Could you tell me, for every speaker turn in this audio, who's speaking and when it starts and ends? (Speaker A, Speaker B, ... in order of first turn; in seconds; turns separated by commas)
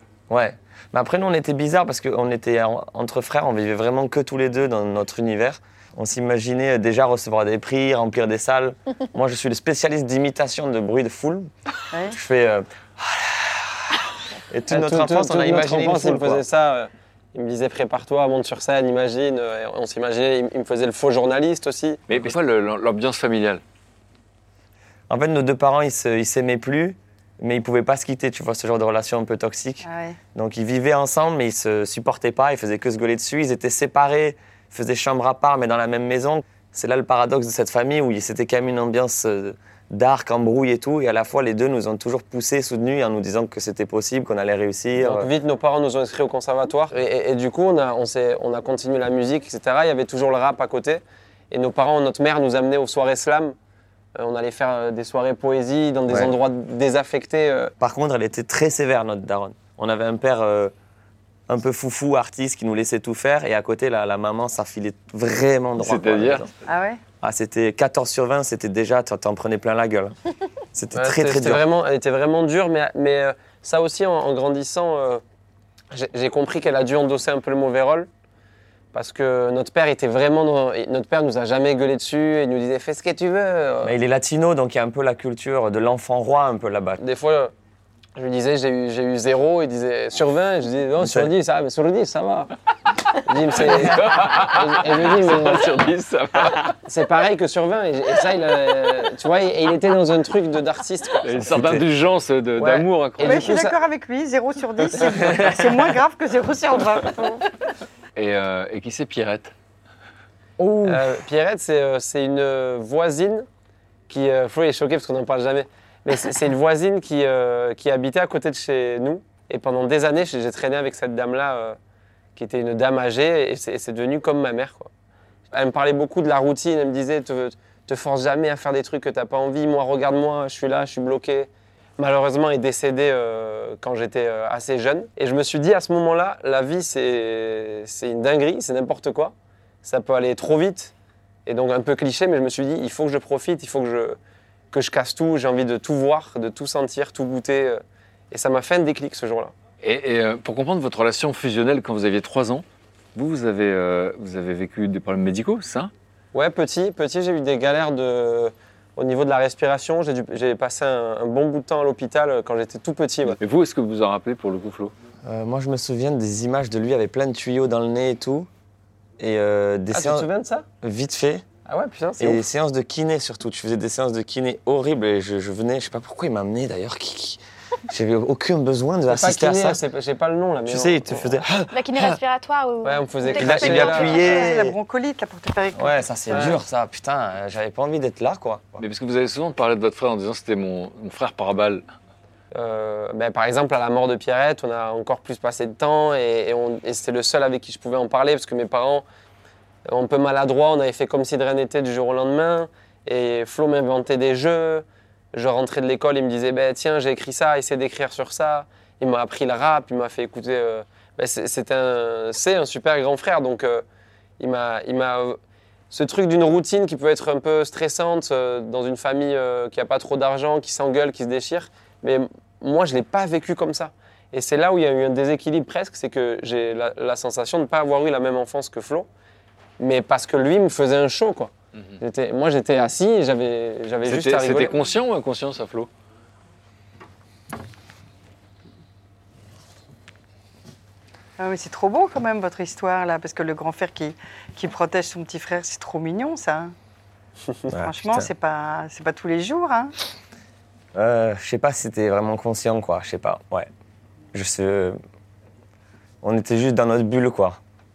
Speaker A: 0.3-11.5, Speaker B: 11.9-12.2, Speaker A: 12.1-16.4, Speaker C: 14.7-22.0, Speaker D: 22.1-23.6, Speaker A: 25.1-45.3, Speaker B: 29.8-30.2, Speaker C: 45.0-53.5, Speaker C: 54.1-57.7, Speaker A: 56.1-56.3, Speaker A: 57.8-60.7, Speaker A: 61.5-66.5, Speaker D: 65.8-66.5, Speaker B: 66.7-67.0, Speaker A: 67.2-70.2, Speaker A: 70.7-71.6, Speaker C: 70.9-75.2, Speaker C: 75.9-78.1, Speaker C: 78.9-83.9, Speaker A: 83.8-87.0, Speaker C: 87.0-87.5, Speaker C: 88.2-92.5, Speaker A: 91.0-91.3, Speaker C: 93.2-95.9, Speaker D: 93.6-96.8, Speaker C: 96.8-101.8, Speaker D: 101.2-103.6, Speaker C: 102.6-103.8, Speaker B: 103.2-107.4, Speaker C: 105.1-105.6, Speaker D: 108.2-109.5, Speaker C: 110.8-113.5, Speaker C: 114.1-121.8, Speaker C: 122.4-124.9, Speaker C: 125.5-140.9, Speaker C: 141.4-144.2, Speaker C: 144.7-149.5, Speaker D: 149.8-152.6, Speaker D: 153.1-155.9, Speaker C: 156.3-163.4, Speaker D: 163.4-164.9, Speaker A: 165.2-168.5, Speaker A: 169.2-170.3, Speaker C: 169.9-170.7, Speaker A: 170.8-171.5, Speaker C: 171.6-172.4, Speaker A: 172.2-179.8, Speaker C: 179.1-181.4, Speaker A: 180.7-182.2, Speaker E: 181.7-184.5, Speaker C: 182.8-184.3, Speaker A: 183.3-184.8, Speaker B: 184.0-186.5, Speaker A: 185.7-188.8, Speaker C: 186.3-186.6, Speaker D: 188.8-191.8, Speaker C: 192.5-199.1, Speaker C: 199.9-213.8, Speaker C: 214.4-215.4, Speaker C: 215.9-229.1, Speaker C: 229.8-234.8, Speaker D: 234.1-235.9, Speaker B: 241.4-246.7, Speaker A: 247.7-248.3, Speaker B: 247.7-249.9, Speaker A: 250.9-253.7, Speaker A: 254.3-254.9, Speaker A: 256.2-257.6